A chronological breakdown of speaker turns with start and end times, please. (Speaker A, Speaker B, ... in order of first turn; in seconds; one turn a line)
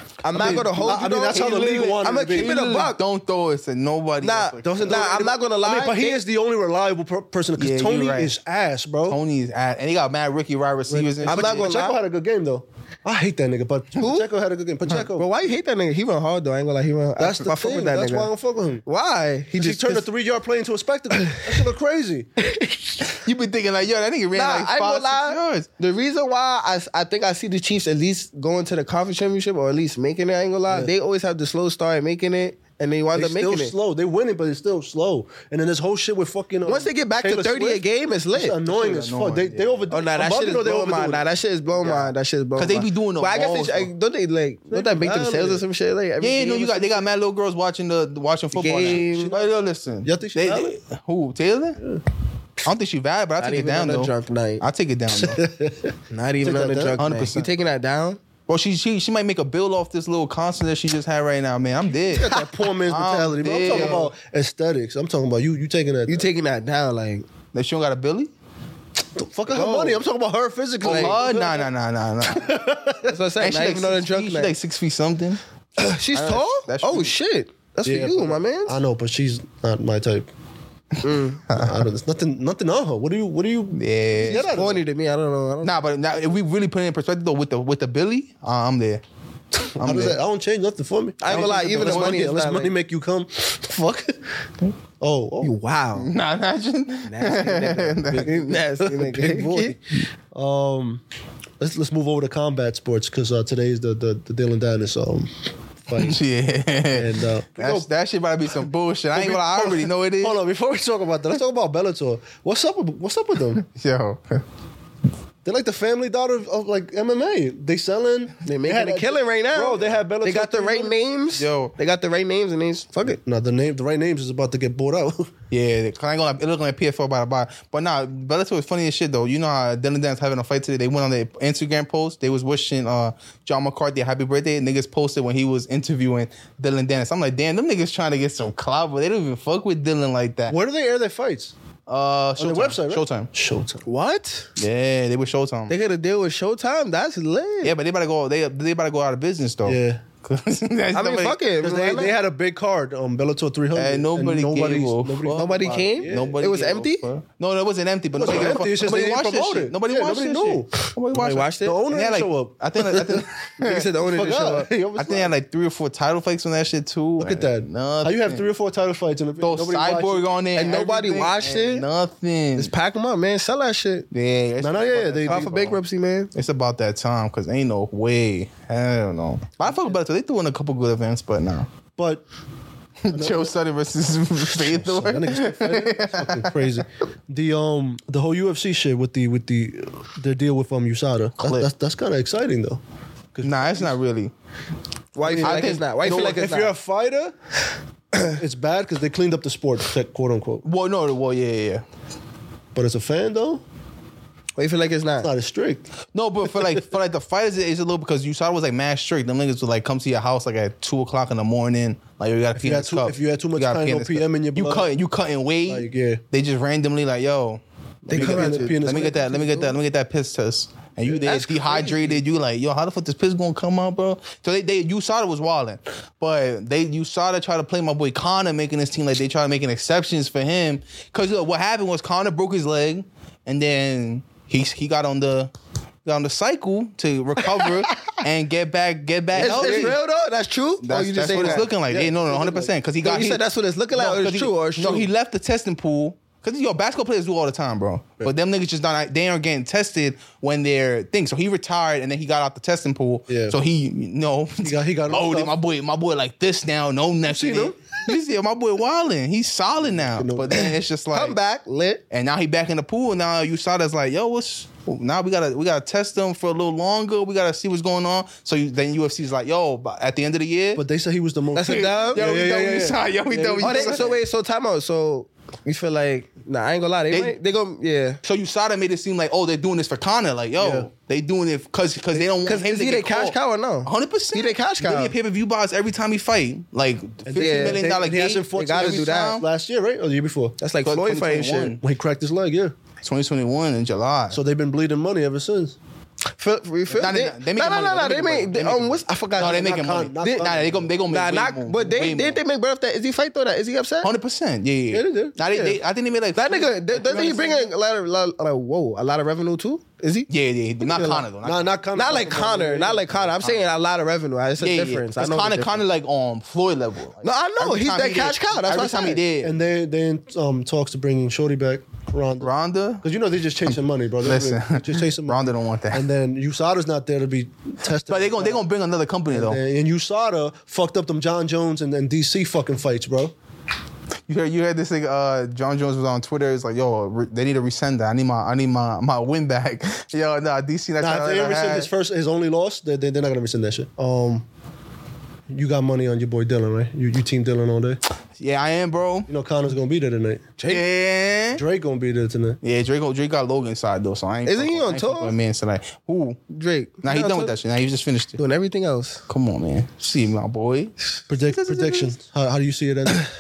Speaker A: 0.2-3.0
Speaker B: 0.3-5.1
Speaker C: 0.3-2.5
Speaker A: 4.2-6.2
Speaker C: 4.6-9.2
Speaker B: 7.6-8.4
Speaker B: 9.1-11.7
Speaker C: 10.9-15.3
Speaker A: 11.2-12.0
Speaker A: 14.0-14.3
Speaker A: 15.0-18.3
Speaker C: 17.2-18.8
Speaker A: 18.9-20.1
Speaker C: 19.6-22.3
Speaker A: 21.2-21.6
Speaker A: 22.4-23.0
Speaker B: 23.1-25.7
Speaker A: 24.3-33.7
Speaker C: 33.1-37.8
Speaker A: 36.7-38.6
Speaker C: 38.3-41.2
Speaker B: 38.7-39.9
Speaker A: 39.9-47.0
Speaker B: 41.8-43.9
Speaker C: 44.7-45.6
Speaker B: 46.2-51.8
Speaker A: 48.5-49.4
Speaker C: 48.9-49.5
Speaker C: 50.0-50.8
Speaker B: 52.6-55.4
Speaker A: 53.4-54.6
Speaker C: 55.1-57.0
Speaker A: 56.1-58.2
Speaker B: 57.0-57.5
Speaker B: 58.5-64.1
Speaker C: 62.1-66.3
Speaker A: 63.7-64.0
Speaker A: 66.1-67.2
Speaker B: 67.5-68.3
Speaker C: 69.2-71.7
Speaker A: 69.5-70.0
Speaker A: 70.8-71.2
Speaker B: 70.8-72.6
Speaker C: 72.3-73.1
Speaker A: 73.0-74.5
Speaker B: 73.4-75.4
Speaker A: 75.8-78.8
Speaker B: 76.1-77.1
Speaker C: 77.8-80.3
Speaker A: 81.0-81.5
Speaker C: 81.5-84.8
Speaker B: 83.7-84.5
Speaker A: 84.2-85.8
Speaker B: 85.6-89.0
Speaker C: 89.8-94.2
Speaker B: 89.8-90.2
Speaker A: 91.2-92.7
Speaker B: 91.3-92.3
Speaker C: 95.0-95.5
Speaker A: 95.4-96.1
Speaker B: 96.0-98.4
Speaker A: 97.1-99.8
Speaker C: 98.1-99.8
Speaker C: 100.3-101.0
Speaker C: 101.6-105.3
Speaker C: 105.9-106.2
Speaker B: 105.9-110.4
Speaker C: 106.9-107.9
Speaker C: 109.1-113.6
Speaker B: 113.5-114.4
Speaker C: 115.5-121.0
Speaker A: 118.5-123.2
Speaker B: 121.3-121.7
Speaker C: 123.1-125.3
Speaker B: 125.5-140.6
Speaker C: 140.5-141.5
Speaker B: 141.9-143.3
Speaker C: 142.4-143.8
Speaker A: 143.8-144.5
Speaker B: 144.6-145.7
Speaker A: 145.7-147.7
Speaker B: 147.6-151.4
Speaker C: 149.7-150.0
Speaker A: 150.9-152.2
Speaker C: 151.6-156.3
Speaker B: 153.7-163.9
Speaker A: 155.3-157.1
Speaker C: 158.2-160.8
Speaker A: 161.1-161.8
Speaker C: 161.6-163.3
Speaker A: 163.6-164.7
Speaker C: 164.0-165.3
Speaker B: 165.0-168.4
Speaker C: 167.2-170.3
Speaker B: 169.4-172.7
Speaker A: 170.6-171.9
Speaker A: 172.6-174.1
Speaker B: 174.1-175.8
Speaker C: 174.6-175.7
Speaker A: 175.2-176.3
Speaker B: 176.3-181.7
Speaker C: 182.0-182.2
Speaker B: 183.0-186.7
Speaker C: 183.1-183.5
Speaker C: 184.5-192.8
Speaker B: 191.4-191.7
Speaker C: 193.3-193.9
Speaker B: 193.4-194.3
Speaker A: 195.1-196.8
Speaker C: 195.2-197.3
Speaker B: 195.4-196.4
Speaker C: 198.2-200.6
Speaker B: 200.6-201.8
Speaker C: 202.8-203.6
Speaker A: 204.6-205.3
Speaker C: 205.2-205.8
Speaker B: 206.1-235.5
Speaker C: 212.6-214.9
Speaker C: 215.7-216.2
Speaker A: 218.1-219.7
Speaker C: 218.1-219.5
Speaker A: 221.1-222.2
Speaker B: 236.1-240.0
Speaker C: 239.3-240.0
Speaker A: 239.4-241.7
Speaker B: 240.8-243.4
Speaker C: 241.3-242.7
Speaker A: 243.0-245.1
Speaker B: 243.9-261.4
Speaker C: 253.3-253.6
Speaker C: 254.6-255.5
Speaker C: 257.3-257.8
Speaker C: 259.9-260.7
Speaker A: 260.5-262.0
Speaker B: 262.1-270.8
Speaker C: 270.8-274.1
Speaker A: 271.6-272.2
Speaker B: 271.6-274.1
Speaker A: 273.6-278.2
Speaker B: 278.2-289.4
Speaker C: 280.6-280.9
Speaker A: 282.4-285.1
Speaker C: 287.2-290.6
Speaker A: 287.4-287.8
Speaker A: 288.6-289.4
Speaker A: 290.6-291.8
Speaker B: 290.8-291.8
Speaker C: 291.8-292.7
Speaker B: 293.0-294.4
Speaker C: 294.3-295.8
Speaker A: 296.4-300.5
Speaker B: 296.9-302.4
Speaker C: 299.5-300.9
Speaker A: 301.1-304.1
Speaker B: 304.0-307.7
Speaker C: 304.9-305.7
Speaker A: 306.4-310.3
Speaker B: 310.3-311.7
Speaker A: 310.8-311.3
Speaker C: 311.4-313.5
Speaker A: 311.9-315.9
Speaker B: 314.6-319.6
Speaker A: 317.2-319.2
Speaker C: 319.4-322.5
Speaker B: 322.4-323.0
Speaker C: 323.0-328.6
Speaker B: 324.2-326.1
Speaker B: 328.1-329.6
Speaker C: 329.3-333.3
Speaker B: 334.3-341.9
Speaker C: 341.0-344.4
Speaker C: 345.5-348.0
Speaker B: 348.4-349.3
Speaker C: 349.3-350.5
Speaker B: 350.6-351.6
Speaker C: 351.6-352.6
Speaker B: 352.6-356.4
Speaker A: 354.5-355.4
Speaker A: 356.5-357.6
Speaker B: 357.0-358.4
Speaker A: 358.4-359.2
Speaker B: 359.3-362.1
Speaker C: 361.3-363.3